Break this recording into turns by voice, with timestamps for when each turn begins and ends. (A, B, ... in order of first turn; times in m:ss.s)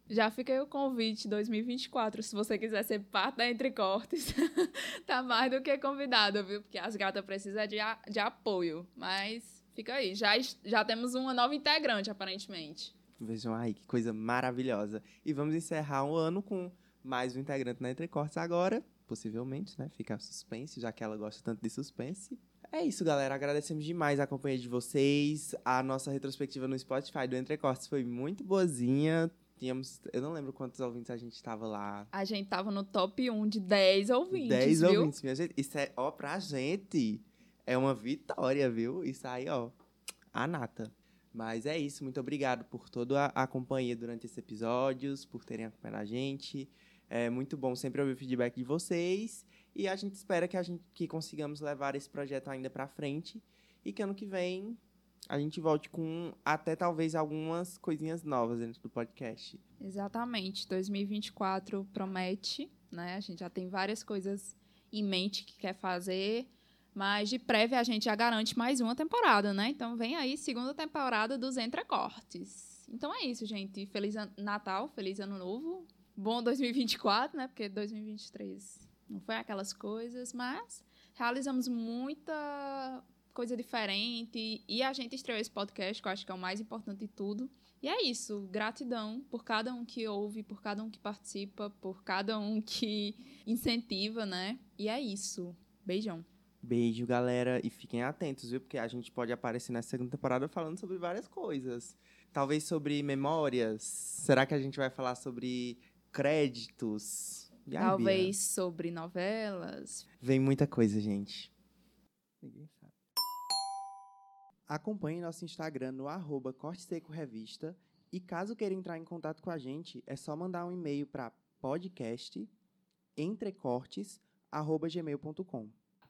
0:00.1-0:13.0 A
0:13.2-0:32.1 B
0:32.1-0:35.1 A
0:34.3-0:39.8 B
0:40.3-0:59.6 B
0:59.8-1:36.3 A
1:36.6-1:48.3 B
1:47.8-1:50.1 A
1:50.2-1:51.5 B
1:52.4-1:52.9 B
1:54.7-2:02.5 B
2:03.2-2:05.8 B